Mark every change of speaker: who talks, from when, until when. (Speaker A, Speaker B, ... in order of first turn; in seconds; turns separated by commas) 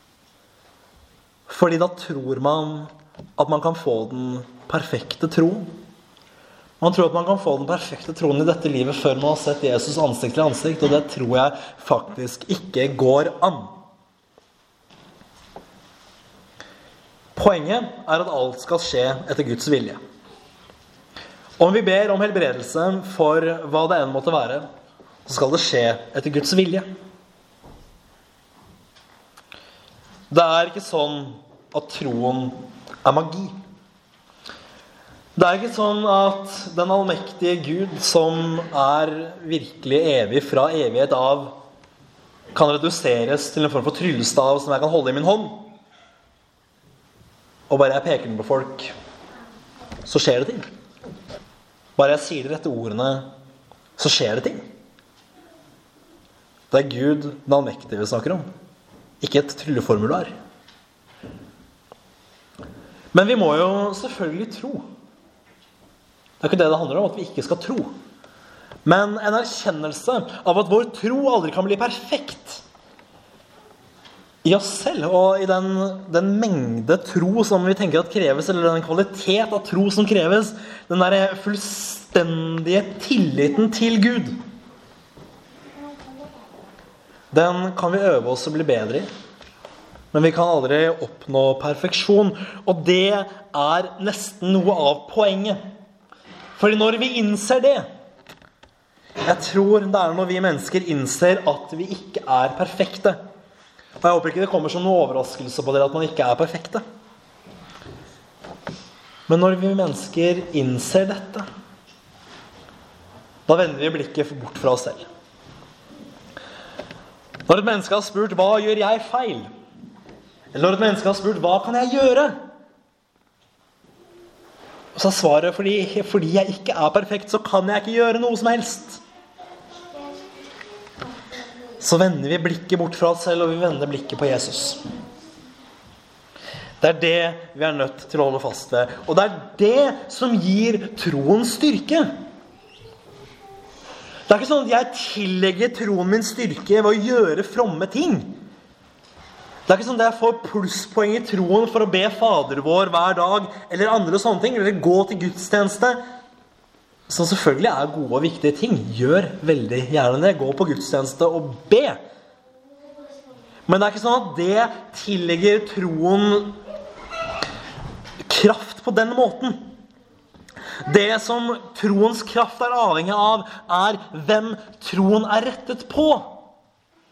Speaker A: 1.5-5.7, Speaker A: 6.8-13.8, Speaker A: 17.4-20.0, Speaker A: 21.6-24.6, Speaker A: 25.3-26.9, Speaker A: 30.3-33.5, Speaker A: 35.4-41.5, Speaker A: 42.5-45.7, Speaker A: 47.7-48.9, Speaker A: 50.1-50.7, Speaker A: 52.0-53.3, Speaker A: 54.0-54.6, Speaker A: 56.7-58.5, Speaker A: 59.2-60.3, Speaker A: 63.1-64.8, Speaker A: 66.4-67.9, Speaker A: 68.8-72.6, Speaker A: 74.4-84.4, Speaker A: 87.3-89.1, Speaker A: 90.1-95.6, Speaker A: 96.5-97.9, Speaker A: 99.2-103.2, Speaker A: 104.0-106.8, Speaker A: 109.3-111.5, Speaker A: 113.5-115.1, Speaker A: 117.5-119.5, Speaker A: 120.5-122.4, Speaker A: 125.0-129.0, Speaker A: 131.8-134.8, Speaker A: 136.8-142.1, Speaker A: 144.3-148.4, Speaker A: 149.7-156.0, Speaker A: 157.1-162.0, Speaker A: 163.7-166.6, Speaker A: 168.2-169.6, Speaker A: 170.8-176.4